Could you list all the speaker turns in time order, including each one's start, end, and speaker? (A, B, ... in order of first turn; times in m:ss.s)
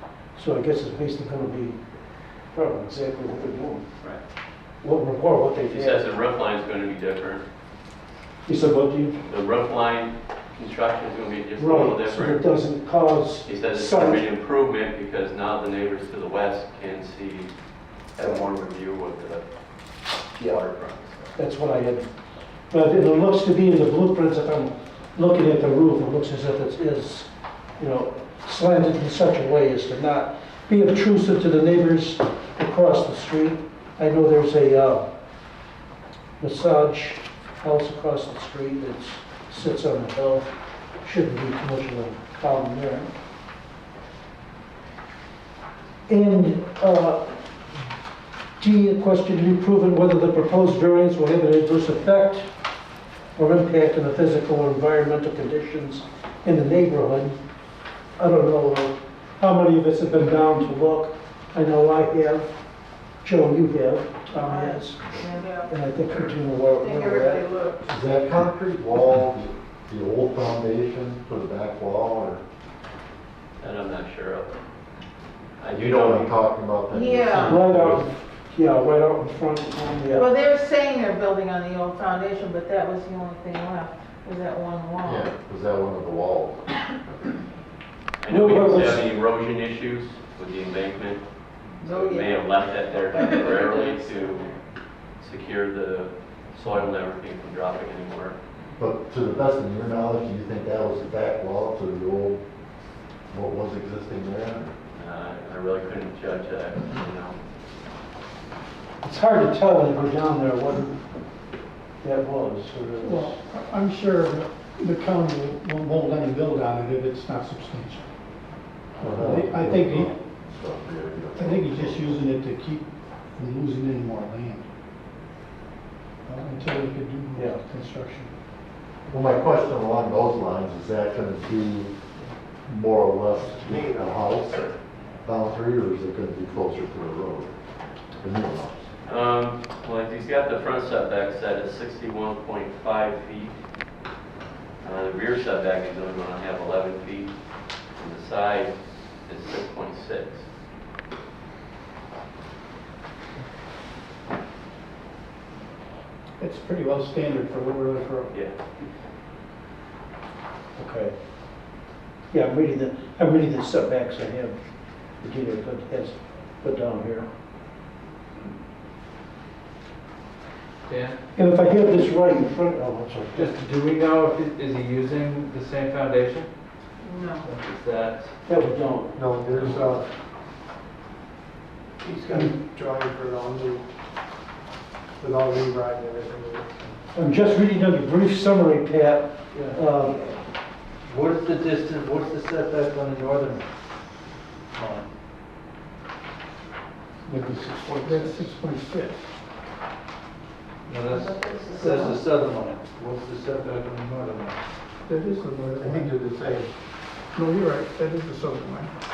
0:00.4-0:01.8 A
0:02.5-0:03.8 A
0:04.8-0:06.0 A
0:05.7-0:07.4 B
0:08.5-0:09.2 A
0:09.2-0:12.4 B
0:11.6-0:14.2 A
0:13.4-0:17.5 B
0:18.1-0:19.4 B
0:20.3-0:21.3 B
0:21.4-0:22.1 A
0:22.7-0:35.1 A
0:36.4-0:40.5 A
0:41.0-0:43.1 A
0:46.1-0:47.3 A
0:48.6-0:52.5 A
0:53.3-0:57.4 A
0:58.2-1:02.5 A
1:03.2-1:05.1 A
1:04.4-1:05.7 C
1:05.7-1:07.4 A
1:06.8-1:07.9 C
1:07.9-1:12.4 D
1:13.6-1:14.6 B
1:15.6-1:16.5 B
1:15.7-1:18.1 D
1:16.9-1:17.6 C
1:17.3-1:20.3 A
1:20.1-1:25.3 C
1:25.0-1:26.7 D
1:28.2-1:31.2 B
1:28.3-1:29.0 A
1:31.8-1:34.5 C
1:31.8-1:34.6 B
1:35.2-1:38.4 B
1:38.8-1:42.4 D
1:43.3-1:44.8 D
1:44.9-1:47.4 B
1:49.0-1:51.0 A
1:52.0-1:53.4 A
1:53.0-1:58.0 E
1:59.0-2:02.2 D
1:59.0-2:00.1 E
2:01.4-2:04.6 E
2:06.3-2:08.3 E
2:09.1-2:12.0 D
2:12.7-2:14.7 D
2:13.5-2:14.4 F
2:15.2-2:17.5 D
2:18.2-2:18.9 D
2:19.0-2:23.6 B
2:24.8-2:27.3 B
2:28.0-2:30.5 B
2:36.4-2:38.3 E
2:40.8-2:41.2 A
2:42.3-2:44.6 A
2:45.2-2:47.3 A
2:50.9-2:51.2 G
2:51.4-2:53.7 A
2:53.3-2:56.5 G
2:57.0-2:57.5 C
2:57.4-2:58.7 G
2:58.5-2:59.2 A
2:59.2-3:00.1 F
3:02.0-3:03.9 F
3:05.2-3:07.0 F
3:07.1-3:10.3 A
3:09.5-3:09.9 G
3:11.0-3:13.7 G
3:14.7-3:15.1 G
3:18.0-3:19.2 E
3:20.9-3:24.6 G
3:21.1-3:22.2 C
3:25.0-3:26.2 E
3:25.8-3:26.7 F
3:27.3-3:28.9 E